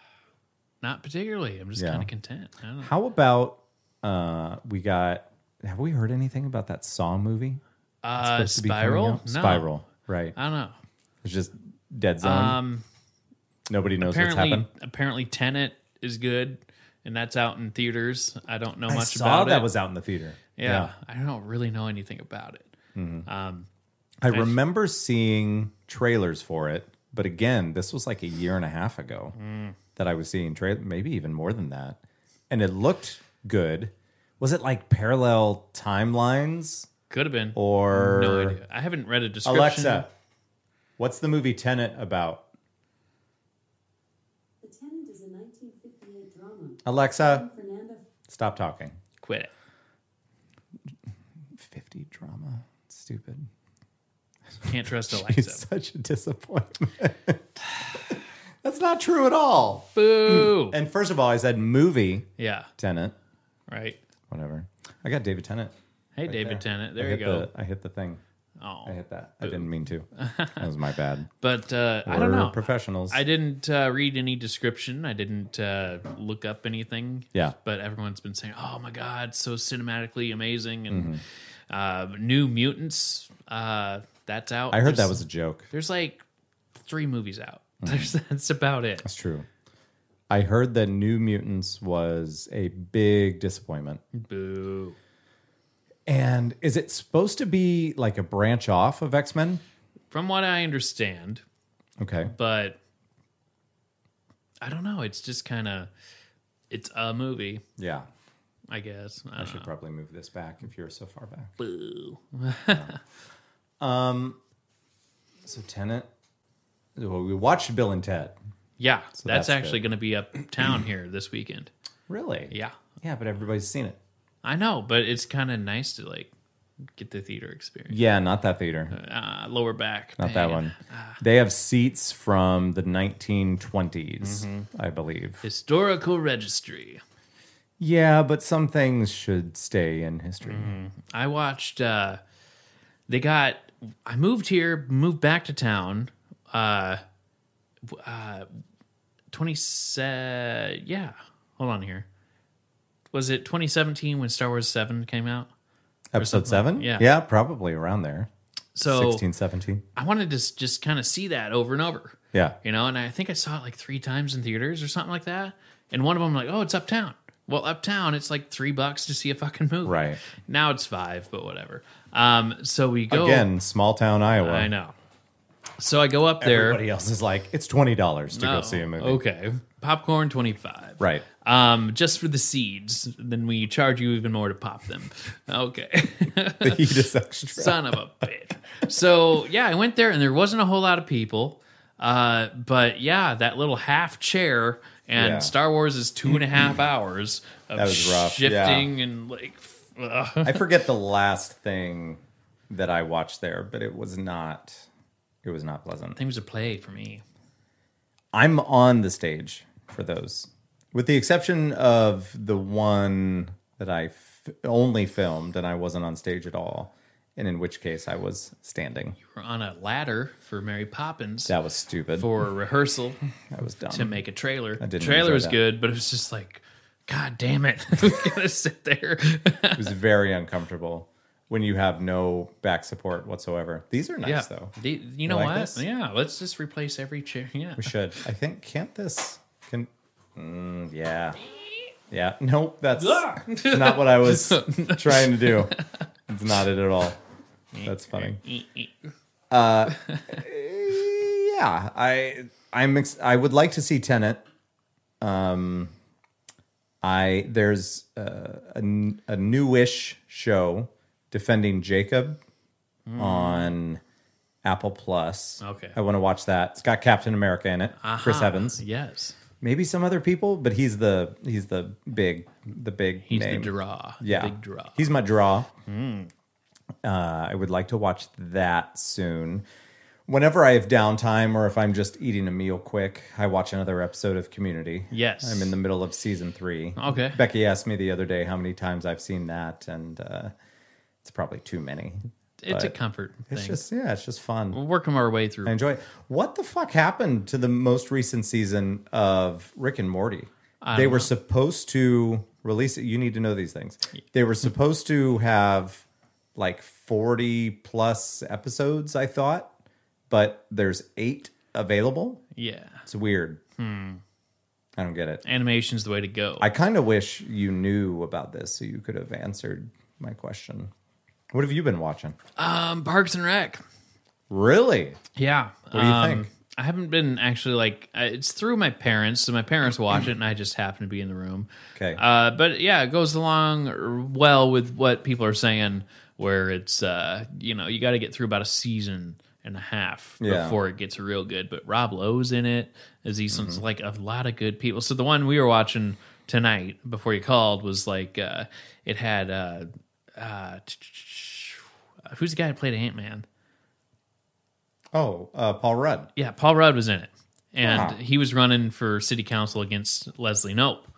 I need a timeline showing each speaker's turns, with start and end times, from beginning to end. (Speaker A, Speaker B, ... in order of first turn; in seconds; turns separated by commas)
Speaker A: 0.8-2.9, Speaker B: 1.8-2.1, Speaker B: 2.8-7.6, Speaker A: 8.0-9.7, Speaker B: 8.2-10.4, Speaker A: 10.4-10.8, Speaker B: 11.2-12.6, Speaker A: 12.2-12.8, Speaker B: 13.7-14.7, Speaker A: 14.0-19.7, Speaker B: 18.9-20.9, Speaker A: 20.6-22.7, Speaker B: 22.9-23.3, Speaker A: 23.3-23.7, Speaker B: 24.2-29.4, Speaker A: 24.3-24.6, Speaker A: 29.4-29.8, Speaker B: 30.0-32.0, Speaker B: 32.5-36.9, Speaker A: 37.1-40.1, Speaker B: 37.5-38.6, Speaker B: 39.5-40.1, Speaker B: 41.0-42.4, Speaker C: 44.6-48.1, Speaker B: 46.9-47.5, Speaker B: 48.3-49.0, Speaker A: 49.2-49.5, Speaker B: 51.6-53.5, Speaker A: 54.7-55.6, Speaker B: 55.1-57.4, Speaker B: 58.6-62.3, Speaker A: 60.0-60.8, Speaker A: 62.4-62.7, Speaker B: 62.8-63.1, Speaker A: 63.7-64.0, Speaker B: 64.3-65.7, Speaker A: 66.2-67.5, Speaker B: 66.3-68.2, Speaker A: 68.6-70.7, Speaker B: 68.8-71.3, Speaker A: 71.4-81.2, Speaker B: 72.1-73.2, Speaker B: 80.9-81.2, Speaker A: 81.7-86.2, Speaker B: 84.7-85.7, Speaker A: 86.8-89.0, Speaker B: 87.8-88.1, Speaker B: 89.0-89.5, Speaker B: 90.3-94.0, Speaker A: 94.1-95.0, Speaker B: 96.1-99.6, Speaker A: 100.1-101.4, Speaker B: 102.0-102.3, Speaker A: 102.3-102.8, Speaker A: 104.6-105.9, Speaker A: 106.7-107.6, Speaker B: 107.8-108.1, Speaker A: 108.7-109.7, Speaker B: 109.4-111.5, Speaker A: 111.6-113.0, Speaker B: 112.7-113.0, Speaker B: 113.8-114.4, Speaker B: 115.5-116.1, Speaker B: 117.0-118.4, Speaker A: 118.8-121.7, Speaker B: 119.2-119.8, Speaker B: 122.1-124.0, Speaker A: 122.5-122.8, Speaker A: 124.4-126.3, Speaker A: 127.0-128.0, Speaker B: 127.9-128.9, Speaker A: 128.9-131.2, Speaker B: 130.2-135.4, Speaker A: 134.2-134.7, Speaker A: 135.4-137.0, Speaker B: 137.8-140.7, Speaker A: 140.4-142.2, Speaker A: 143.1-147.0, Speaker A: 147.9-148.5, Speaker A: 149.3-152.1, Speaker A: 153.1-155.5, Speaker B: 156.1-158.3, Speaker A: 156.2-157.1, Speaker A: 158.8-159.2, Speaker B: 158.8-159.8, Speaker A: 160.0-173.5, Speaker B: 169.8-170.2, Speaker B: 173.1-174.7, Speaker A: 174.4-174.9, Speaker A: 175.8-176.8, Speaker B: 176.4-179.2, Speaker A: 178.3-187.0, Speaker B: 181.0-181.3, Speaker B: 186.6-188.0, Speaker A: 187.6-200.6, Speaker B: 195.2-195.5, Speaker B: 197.8-198.9, Speaker B: 200.4-204.9, Speaker B: 205.4-206.2, Speaker A: 206.2-207.2, Speaker B: 208.3-219.2, Speaker A: 219.3-221.5, Speaker B: 221.5-222.3, Speaker A: 222.2-223.2, Speaker B: 223.5-224.2, Speaker A: 223.9-229.9, Speaker B: 224.8-225.6, Speaker B: 229.8-234.7, Speaker A: 234.2-237.9, Speaker B: 235.3-235.8, Speaker B: 237.8-241.4, Speaker B: 242.1-245.8, Speaker A: 243.0-245.8, Speaker B: 246.3-247.2, Speaker A: 247.7-248.9, Speaker B: 247.8-248.4, Speaker B: 249.5-254.4, Speaker A: 250.0-250.4, Speaker B: 255.2-255.9, Speaker B: 257.0-262.4, Speaker A: 263.1-263.7, Speaker B: 263.2-264.0, Speaker B: 264.6-268.8, Speaker A: 265.6-266.0, Speaker A: 268.0-269.4, Speaker B: 269.6-275.7, Speaker A: 273.3-275.0, Speaker A: 275.9-276.3, Speaker B: 277.0-279.6, Speaker B: 280.3-290.5, Speaker A: 285.1-285.8, Speaker A: 287.0-287.4, Speaker B: 291.2-292.9, Speaker A: 292.6-293.8, Speaker B: 293.5-294.8, Speaker A: 294.7-295.7, Speaker B: 295.7-306.1, Speaker A: 300.8-301.3, Speaker B: 306.6-309.7, Speaker B: 310.3-312.4, Speaker A: 312.6-313.0, Speaker B: 313.1-313.6, Speaker A: 313.8-314.2, Speaker B: 315.0-315.4, Speaker A: 315.4-316.7, Speaker B: 316.6-320.9, Speaker B: 321.5-322.4, Speaker A: 322.6-323.8, Speaker B: 324.5-325.2, Speaker A: 325.4-353.4, Speaker B: 325.9-326.5, Speaker B: 332.0-332.2, Speaker B: 340.4-340.8, Speaker B: 343.5-343.8, Speaker B: 355.1-356.3, Speaker A: 356.4-361.1, Speaker B: 357.8-358.2